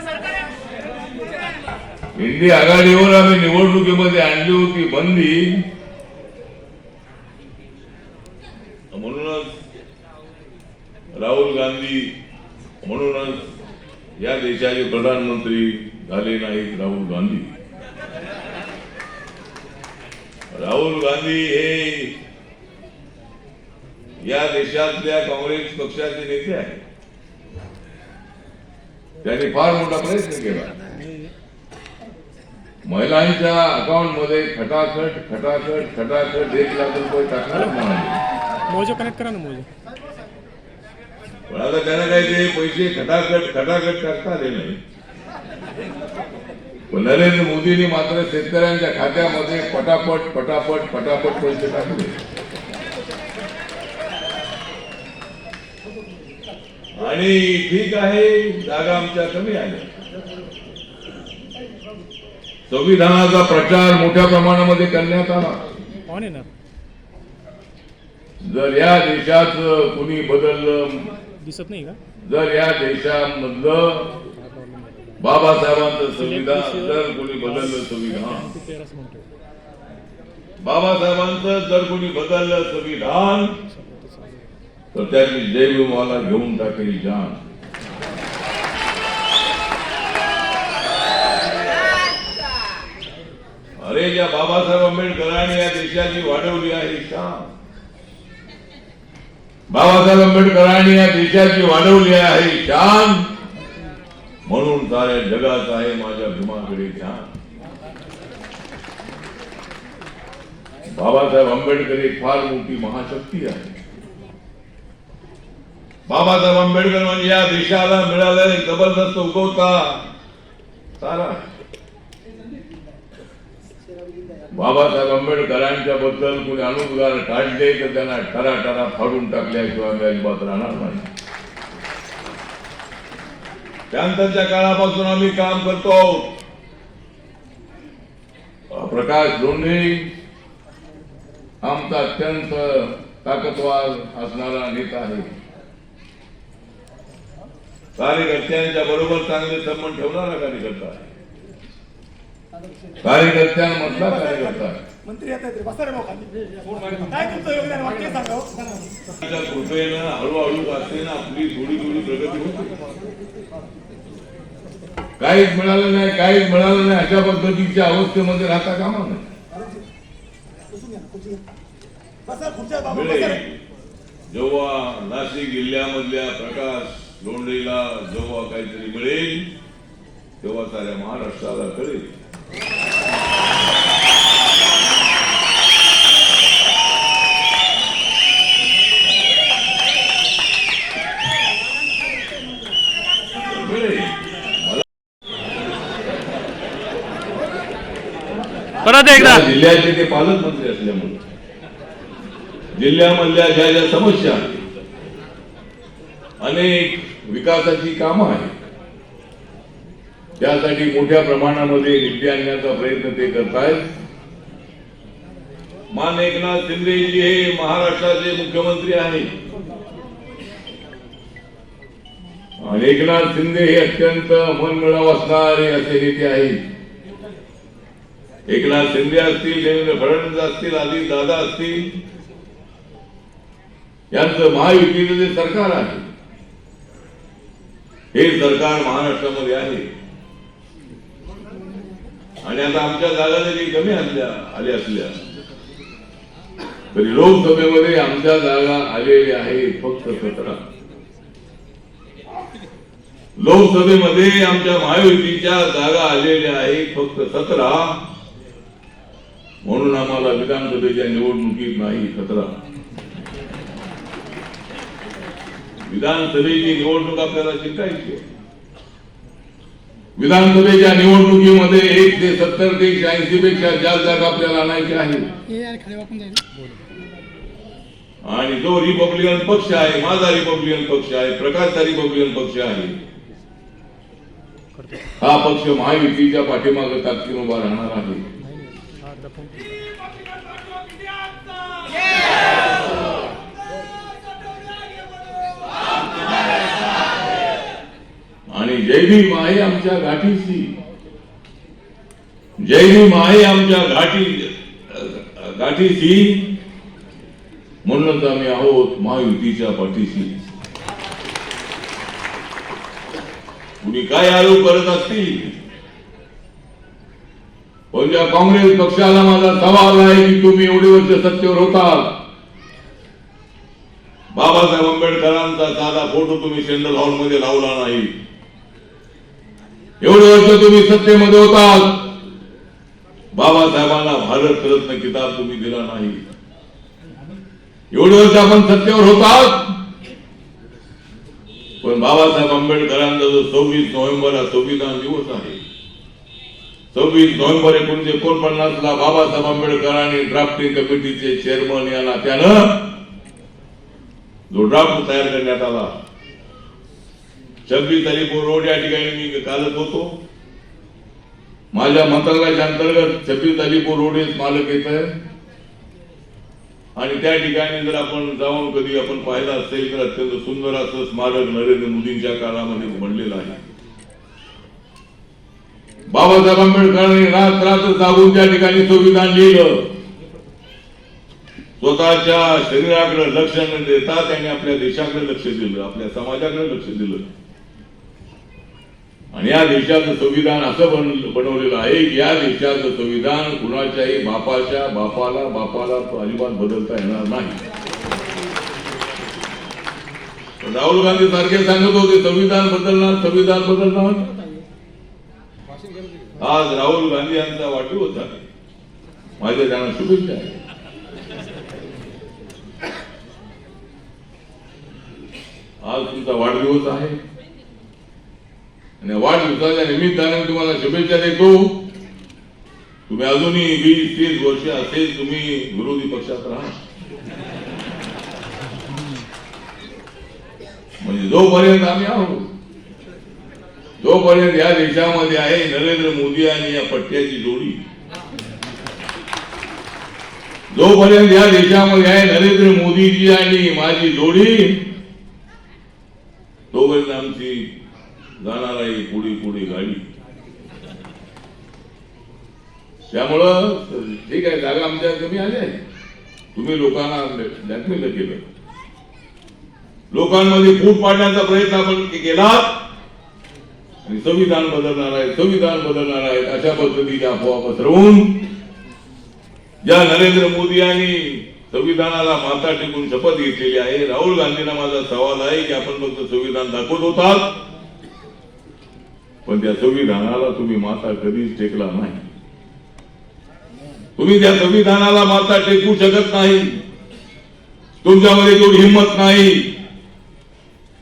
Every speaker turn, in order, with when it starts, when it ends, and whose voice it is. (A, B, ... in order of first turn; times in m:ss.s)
0:02.2-0:05.5 A
0:08.9-0:09.5 A
0:11.1-0:12.1 A
0:12.8-0:13.4 A
0:14.2-0:17.5 A
0:20.5-0:22.1 A
0:24.2-0:26.8 A
0:29.2-0:30.8 A
0:32.9-0:38.2 A
0:38.7-0:39.7 B
0:41.5-0:44.8 A
0:46.9-0:52.2 A
0:57.0-0:59.9 A
1:02.7-1:05.6 A
1:06.1-1:06.5 B
1:08.4-1:11.1 A
1:11.4-1:12.0 B
1:12.2-1:14.2 A
1:14.4-1:15.1 B
1:15.2-1:18.5 A
1:16.2-1:19.3 B
1:20.6-1:23.5 A
1:23.8-1:24.4 B
1:24.9-1:27.4 A
1:33.8-1:37.5 A
1:39.7-1:43.2 A
1:44.5-1:47.3 A
1:50.9-1:53.8 A
1:56.1-2:00.0 A
2:01.0-2:01.4 A
2:04.5-2:11.1 A
2:13.9-2:16.3 A
2:18.7-2:20.1 A
2:21.6-2:25.3 A
2:28.0-2:31.1 A
2:33.0-2:34.8 A
2:35.0-2:36.2 C
2:37.1-2:38.8 C
2:39.1-2:42.7 A
2:45.2-2:49.2 A
2:52.3-2:52.8 C
2:52.8-2:53.6 A
2:54.3-2:59.5 A
3:00.4-3:02.1 A
3:13.5-3:14.8 A
3:18.9-3:19.4 B
3:19.1-3:21.2 A
3:22.8-3:24.6 A
3:26.4-3:28.5 A
3:30.4-3:33.8 A
3:35.9-3:39.3 A
3:42.6-3:46.6 A
3:48.5-3:51.9 A
3:54.1-3:56.1 A
3:58.1-3:59.9 A
4:02.4-4:05.2 A
4:06.9-4:10.6 A
4:13.4-4:18.0 A
4:19.6-4:22.6 A
4:25.9-4:28.2 A
4:30.2-4:35.3 A
4:35.5-4:36.8 B
4:38.2-4:43.0 A
4:44.8-4:45.1 B
4:45.2-4:48.2 A
4:48.4-4:49.7 B
4:58.5-5:00.8 A
5:02.6-5:06.6 A
5:07.8-5:10.4 A
5:13.8-5:15.6 A
5:17.9-5:22.2 A
5:24.3-5:28.1 A
5:30.0-5:32.2 A
5:33.3-5:36.2 A
5:37.9-5:39.8 A
5:41.8-5:45.6 A
5:46.9-5:53.0 A
5:54.5-5:55.9 A
5:57.7-6:00.2 A
6:01.7-6:05.1 A
6:07.0-6:13.6 A
6:16.1-6:19.9 A
6:21.8-6:27.2 A
6:29.3-6:37.6 A
6:40.6-6:44.4 A
6:46.4-6:48.4 A
6:49.4-6:50.6 A
6:55.8-6:57.2 A
6:59.0-7:01.8 A
7:03.1-7:06.8 A
7:11.0-7:12.5 A
7:14.0-7:17.8 A
7:20.7-7:24.9 A
7:26.7-7:27.7 A
7:28.4-7:30.0 A
7:33.1-7:35.8 A
7:36.6-7:38.4 A
7:40.1-7:42.8 A
7:44.1-7:48.5 A
7:49.8-7:57.5 A
7:59.5-8:02.3 A
8:04.2-8:06.8 A
8:08.0-8:09.7 A